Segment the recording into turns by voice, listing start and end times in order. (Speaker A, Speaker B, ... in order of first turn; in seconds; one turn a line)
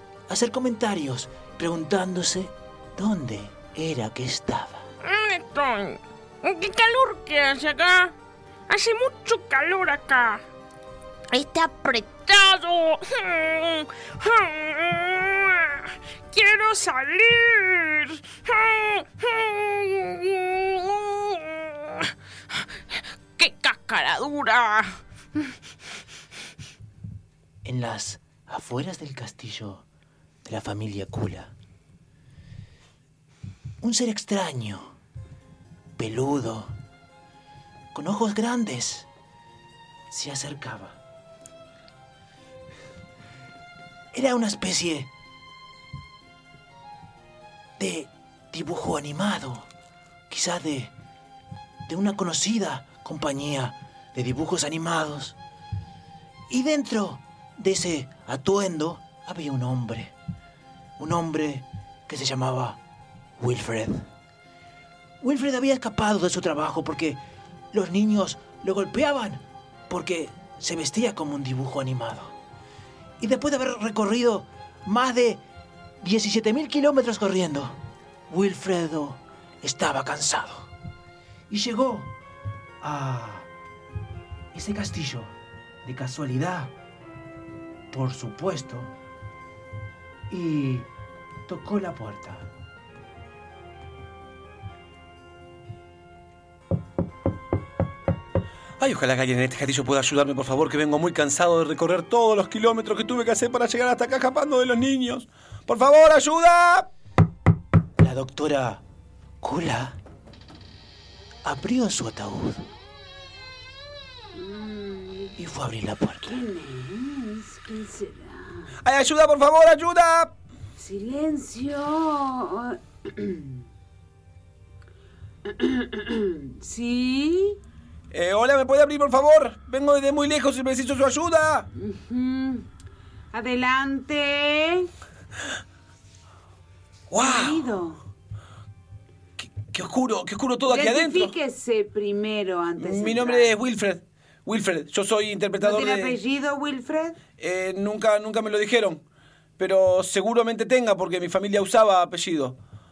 Speaker A: 0.3-4.9
Speaker B: 5.0-8.1
Speaker B: 8.7-10.4
Speaker B: 11.3-22.1
Speaker B: 23.4-25.0
Speaker A: 27.6-29.9
Speaker A: 30.4-31.5
Speaker A: 33.8-35.0
Speaker A: 36.0-36.7
Speaker A: 37.9-39.1
Speaker A: 40.1-41.0
Speaker A: 44.1-45.1
Speaker A: 47.8-49.7
Speaker A: 50.3-50.9
Speaker A: 51.9-55.4
Speaker A: 56.5-60.1
Speaker A: 61.0-62.8
Speaker A: 63.4-64.1
Speaker A: 65.2-67.2
Speaker A: 67.7-72.3
Speaker A: 73.2-75.4
Speaker A: 76.0-80.7
Speaker A: 81.5-82.1
Speaker A: 82.8-83.5
Speaker A: 84.5-86.7
Speaker A: 87.9-88.9
Speaker A: 90.3-90.9
Speaker A: 91.5-92.5
Speaker C: 98.8-106.9
Speaker A: 108.0-108.8
Speaker A: 109.4-110.0
Speaker A: 111.4-112.7
Speaker D: 114.3-115.3
Speaker A: 115.3-116.4
Speaker D: 116.2-118.8
Speaker C: 118.8-120.3
Speaker D: 120.8-123.6
Speaker D: 125.4-127.6
Speaker C: 128.1-131.7
Speaker D: 131.7-132.7
Speaker D: 133.3-134.9
Speaker C: 137.1-137.7
Speaker D: 137.2-138.0
Speaker C: 139.4-141.3
Speaker D: 140.7-143.5
Speaker C: 142.8-146.2
Speaker D: 145.6-147.2
Speaker C: 147.4-149.0
Speaker C: 149.6-152.6